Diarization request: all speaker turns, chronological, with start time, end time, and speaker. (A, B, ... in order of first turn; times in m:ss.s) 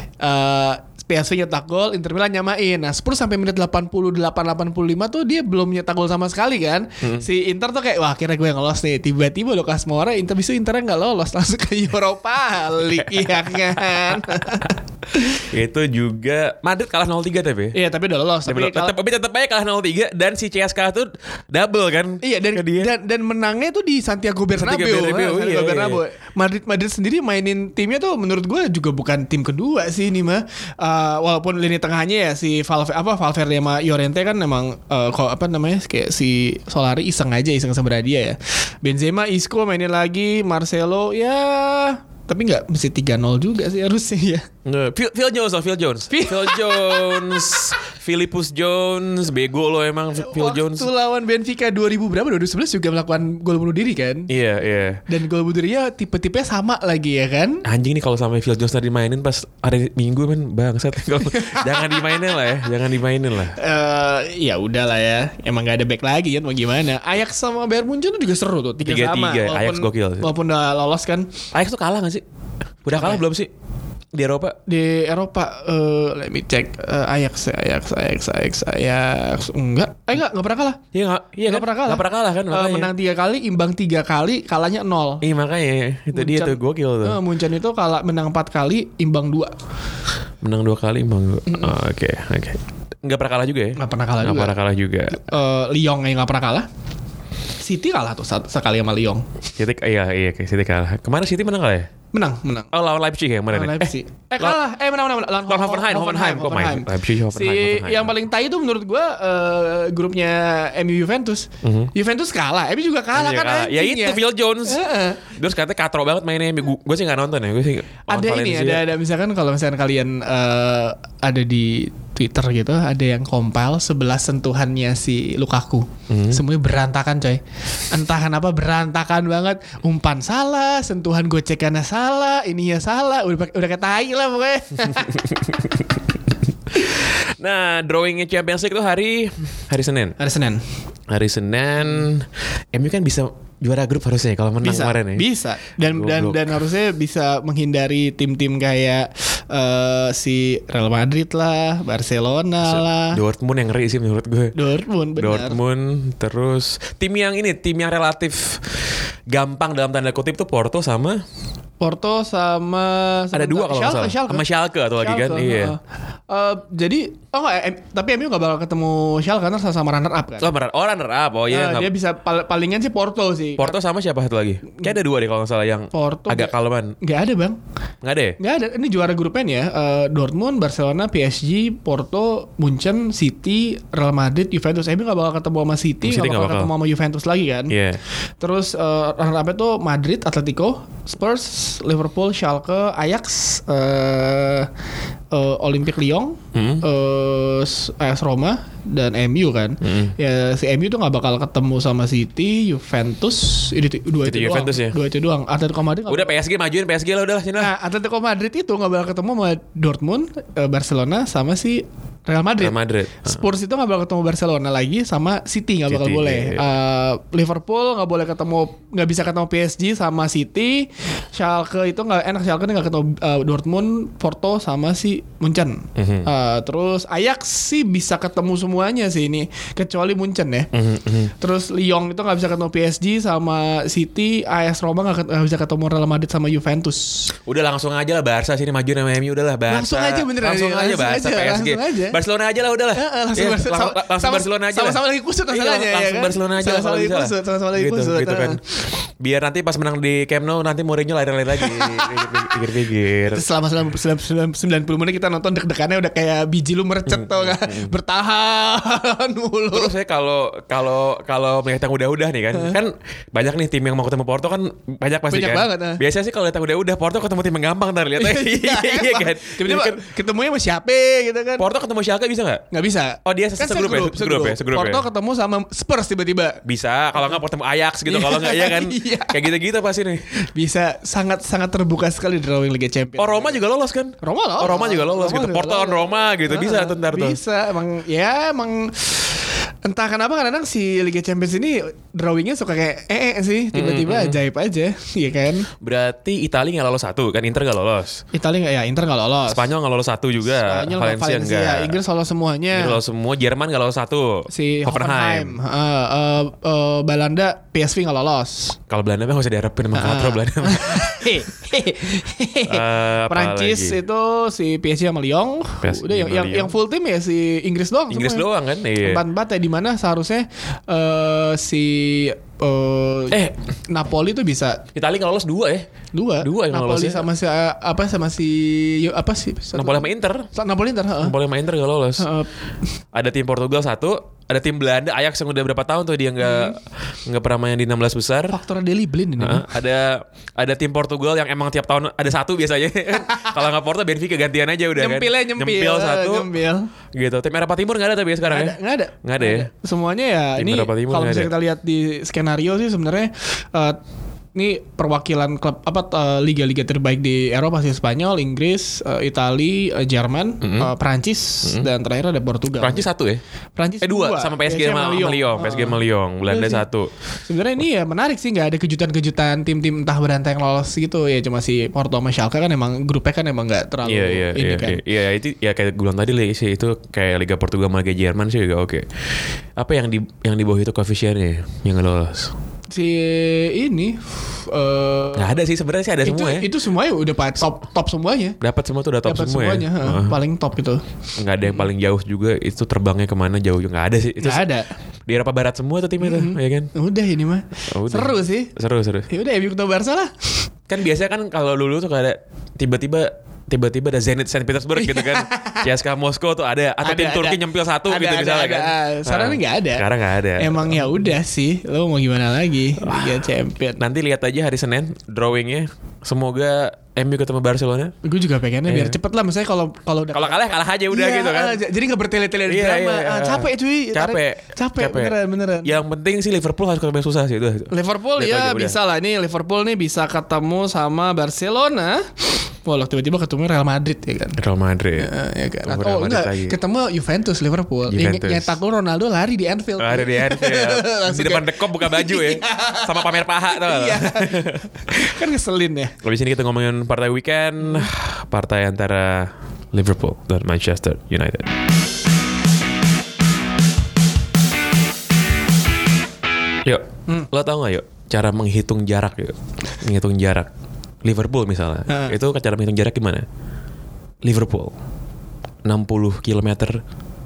0:00.2-0:15.4 A
0:07.0-0:07.3 B
0:13.0-0:14.7 B
0:15.5-0:17.8 B
0:17.7-0:19.0 A
0:18.5-0:22.9 B
0:22.2-0:44.5 A
0:24.6-0:26.0 B
0:44.6-0:50.9 B
0:46.1-0:47.7 A
0:50.2-0:54.3 A
0:54.3-0:55.0 B
0:55.1-0:57.6 A
0:57.6-1:03.6 B
1:01.3-1:02.2 A
1:03.5-1:11.3 A
1:08.8-1:10.3 B
1:11.5-1:12.2 B
1:12.8-1:13.5 B
1:13.0-1:13.2 A
1:14.1-1:14.6 B
1:14.7-1:20.8 A
1:20.9-1:22.9 B
1:21.5-1:25.2 A
1:25.2-1:27.2 B
1:26.1-1:29.6 A
1:30.4-1:35.3 B
1:33.8-1:34.6 A
1:35.1-1:36.7 A
1:37.6-1:39.2 A
1:39.6-1:41.9 B
1:42.1-1:42.7 A
1:42.7-1:44.6 B
1:43.5-1:55.2 A
1:45.5-1:48.1 B
1:51.6-1:51.9 B
1:53.1-1:58.8 B
1:58.1-2:15.4 A
2:06.1-2:06.4 B
2:16.7-2:20.2 B
2:20.2-2:20.6 A
2:21.1-2:25.3 B
2:24.6-2:33.2 A
2:25.8-2:26.6 B
2:32.6-2:34.6 B
2:34.6-2:35.6 A
2:35.2-2:38.8 B
2:39.3-2:41.2 B
2:41.8-2:44.4 A
2:43.3-2:45.8 B
2:45.0-2:50.5 A
2:50.4-2:51.9 B
2:51.5-2:53.8 A
2:53.6-2:57.0 B
2:55.9-2:57.6 A
2:58.0-2:58.4 B
2:58.4-3:07.8 A
3:06.0-3:06.7 B
3:07.7-3:08.0 B
3:08.4-3:14.7 A
3:15.3-3:26.3 A
3:16.6-3:16.8 B
3:19.8-3:20.1 B
3:24.2-3:25.0 B
3:26.1-3:27.7 B
3:27.6-3:50.7 A
3:32.6-3:33.4 B
3:35.9-3:36.6 B
3:46.0-3:46.3 B
3:50.7-3:51.3 B
3:51.4-3:57.3 A
3:57.5-4:13.4 B
3:59.7-4:02.2 A
4:02.9-4:08.6 A
4:11.6-4:12.5 A
4:13.3-4:19.9 A
4:17.1-4:17.9 B
4:19.7-4:30.0 B
4:25.3-4:26.0 A
4:28.2-4:31.7 A
4:31.6-4:32.6 B
4:32.7-4:36.6 A
4:33.2-4:35.0 B
4:36.6-4:40.3 B
4:38.1-4:39.4 A
4:40.5-4:43.6 A
4:43.2-4:47.4 B
4:44.2-4:55.7 A
4:53.7-4:54.4 B
4:55.8-4:58.2 B
4:58.3-4:59.7 A
4:59.5-5:02.0 B
5:00.5-5:03.0 A
5:02.7-5:05.6 B
5:04.5-5:08.8 A
5:08.9-5:11.3 B
5:09.9-5:24.8 A
5:12.7-5:14.0 B
5:15.8-5:16.8 B
5:18.1-5:19.2 B
5:25.0-5:25.9 B
5:26.1-5:31.4 A
5:26.4-5:27.3 B
5:29.8-5:30.5 B
5:31.2-5:32.3 B
5:32.2-5:32.5 A
5:33.1-5:38.6 B
5:36.4-5:36.8 A
5:38.5-5:39.7 A
5:39.4-5:46.5 B
5:43.3-5:43.5 A
5:45.0-5:46.9 A
5:47.1-5:49.7 B
5:48.5-5:54.0 A
5:50.6-5:51.5 B
5:54.6-6:03.1 A
6:00.6-6:00.9 B
6:02.8-6:03.4 B
6:03.8-6:06.8 A
6:04.0-6:07.1 B
6:07.5-6:15.0 A
6:14.0-6:22.5 B
6:22.9-6:25.6 A
6:25.4-6:26.7 B
6:26.2-6:28.6 A
6:28.6-6:30.4 B
6:29.2-6:31.0 A
6:31.4-6:34.6 B
6:34.4-6:34.9 A
6:35.3-6:36.9 B
6:36.2-6:38.7 A
6:37.9-6:39.3 B
6:39.3-6:40.6 A
6:40.9-6:51.2 B
6:45.0-6:45.9 A
6:47.0-6:54.0 A
6:53.0-6:58.1 B
6:58.2-7:05.9 A
6:58.9-6:59.2 B
7:00.3-7:01.8 B
7:02.7-7:09.0 B
7:07.9-7:14.6 A
7:14.6-7:15.3 B
7:15.2-7:26.2 A
7:15.9-7:16.8 B
7:18.1-7:18.8 B
7:20.0-7:25.3 B
7:26.2-7:31.8 B
7:36.8-7:40.7 B
7:41.2-7:43.5 B
7:42.1-7:42.3 A
7:44.4-7:45.0 B
7:45.8-7:47.0 B